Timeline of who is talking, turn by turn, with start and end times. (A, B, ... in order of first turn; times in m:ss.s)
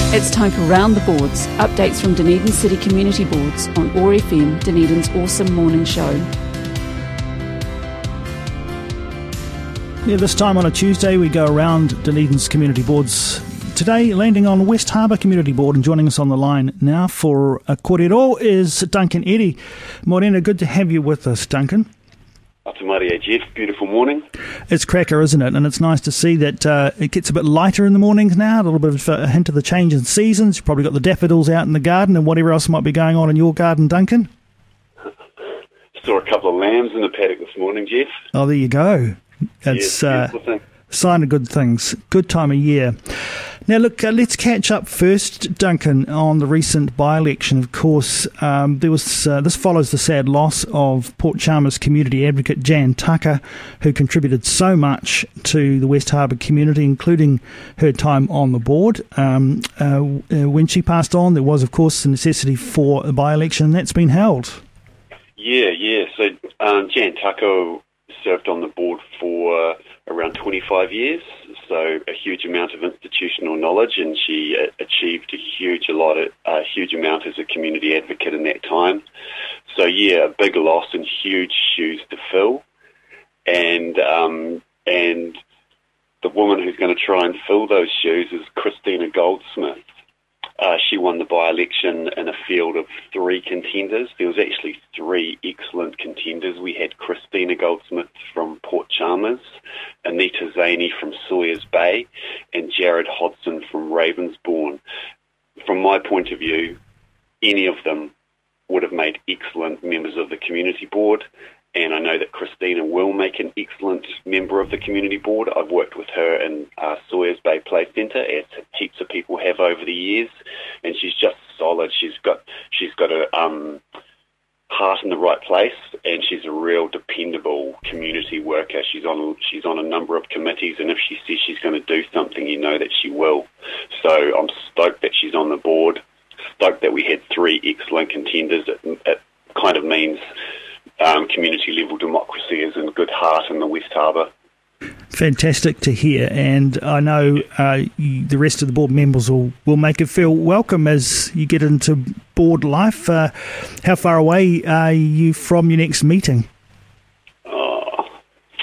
0:00.1-0:06.2 A
0:10.0-0:21.9 B
0:22.6-0:24.2 C
0:24.7-0:34.3 B
0:36.0-0:38.1 C
0:38.3-0:40.3 B
0:39.7-0:40.6 C
0:40.9-1:04.6 B
1:05.4-1:19.0 C
1:19.7-1:22.6 C
1:23.5-1:25.4 C
1:26.2-1:29.8 C
1:30.6-1:39.4 C
1:40.0-1:44.8 C
1:45.6-1:46.8 C
1:47.4-1:48.1 C
1:48.7-2:03.8 C
2:04.7-2:16.0 C
2:16.6-2:20.2 C
2:21.0-2:24.3 C
2:25.1-2:36.5 B
2:37.4-2:38.1 C